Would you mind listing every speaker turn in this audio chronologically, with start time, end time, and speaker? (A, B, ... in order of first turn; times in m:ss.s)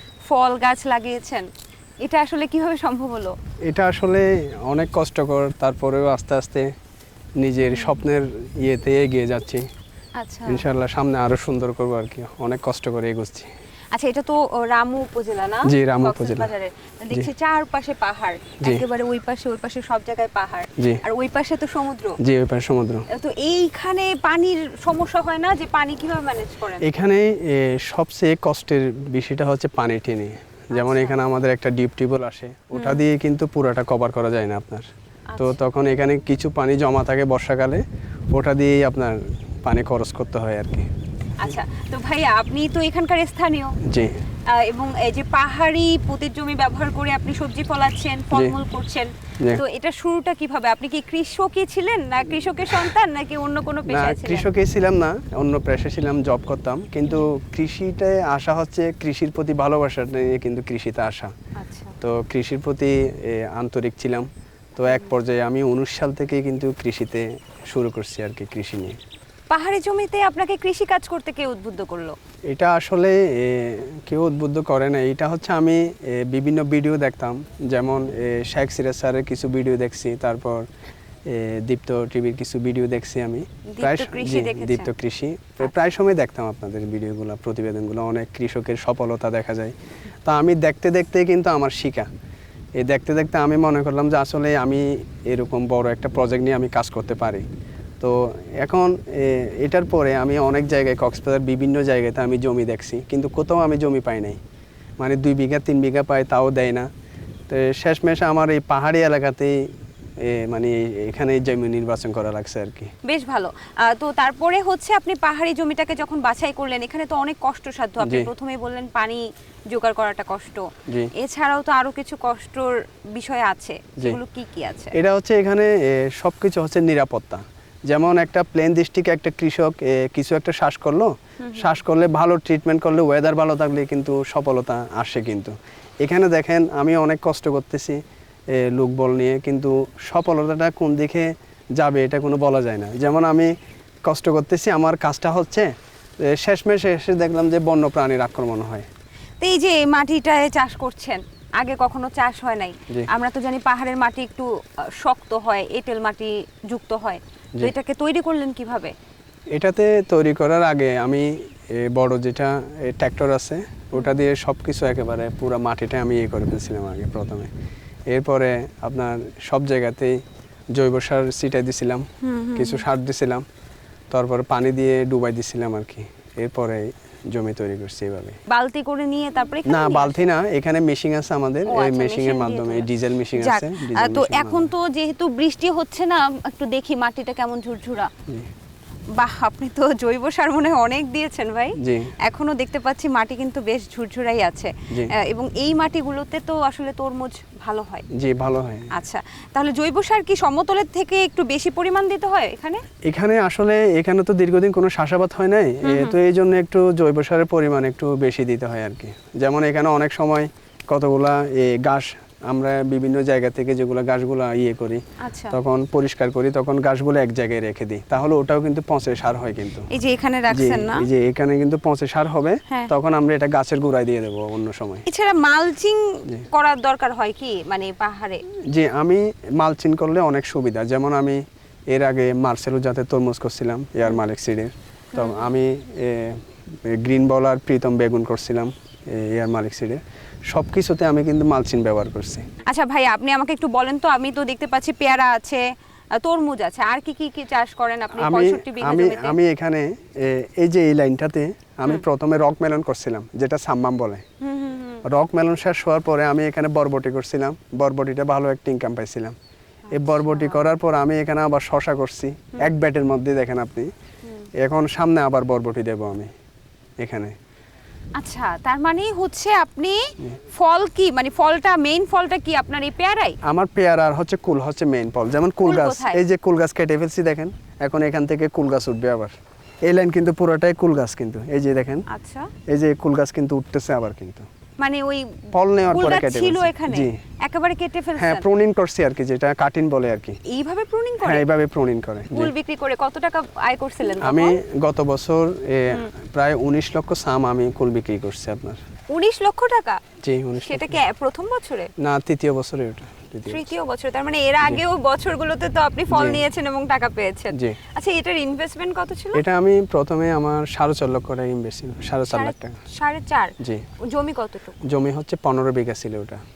0:00.3-0:01.5 A
0:02.0-0:03.3 A
0:03.7-0:06.7 B
0:07.4-0:09.6 B
0:07.7-0:08.0 A
0:10.2-0:10.6 A
0:10.5-0:13.5 B
0:13.9-0:22.2 A
0:15.6-0:16.5 B
0:20.8-0:21.0 B
0:22.2-0:23.0 B
0:23.1-0:26.9 A
0:26.8-0:40.9 B
0:30.7-0:31.2 A
0:32.7-0:33.0 A
0:35.3-0:35.6 A
0:41.4-0:43.7 A
0:43.8-0:44.2 B
0:44.5-0:54.4 A
0:53.9-1:01.3 B
1:01.6-1:02.0 A
1:02.0-1:09.0 B
1:09.5-1:12.1 A
1:12.5-1:20.6 B
1:21.3-1:32.1 B
1:23.7-1:24.9 A
1:32.8-1:37.4 B
1:38.0-1:44.4 B
1:45.0-1:46.9 B
1:47.5-1:49.6 B
1:50.2-1:52.9 B
1:53.0-2:04.9 A
1:58.0-1:58.3 B
2:04.9-2:18.0 B
2:11.4-2:11.7 A
2:18.5-2:23.5 B
2:24.0-2:25.7 B
2:26.2-2:28.9 B
2:29.4-2:34.5 A
2:35.0-2:38.9 A
2:39.5-2:47.5 B
2:48.1-2:50.2 B
2:50.8-2:53.4 B
2:52.2-2:52.8 A
2:54.1-2:58.4 B
2:58.5-3:00.3 A
2:59.6-3:04.7 B
3:01.7-3:08.1 A
3:09.2-3:18.0 A
3:11.8-3:12.1 B
3:18.1-3:18.9 B
3:18.9-3:22.8 A
3:23.1-3:39.9 B
3:25.8-3:26.2 A
3:35.2-3:35.6 A
3:39.9-3:41.1 A
3:40.5-3:45.0 B
3:45.0-3:48.4 A
3:48.7-4:02.4 B
3:55.1-3:55.5 A
4:02.7-4:05.6 A
4:06.2-4:09.4 A
4:08.2-4:14.2 B
4:14.4-4:15.0 A
4:15.0-4:19.4 B
4:19.9-4:20.6 A
4:19.9-4:23.9 B
4:24.6-4:26.3 B
4:27.0-4:27.3 B
4:28.2-4:33.4 A
4:33.4-4:39.3 B
4:35.6-4:36.2 A
4:39.8-4:42.0 B
4:42.1-4:42.5 A
4:42.7-4:44.5 B
4:44.8-4:48.4 A
4:45.5-4:47.1 B
4:48.2-4:50.4 B
4:50.4-4:51.4 A
4:51.2-4:52.5 B
4:52.3-4:54.6 A
4:54.2-4:58.8 B
4:59.1-5:00.0 A
5:00.2-5:01.0 B
5:00.6-5:01.9 A
5:02.0-5:03.7 B
5:03.5-5:09.4 A
5:06.1-5:06.4 B
5:09.3-5:12.8 B
5:12.3-5:14.8 A
5:13.6-5:13.8 B
5:14.8-5:16.4 B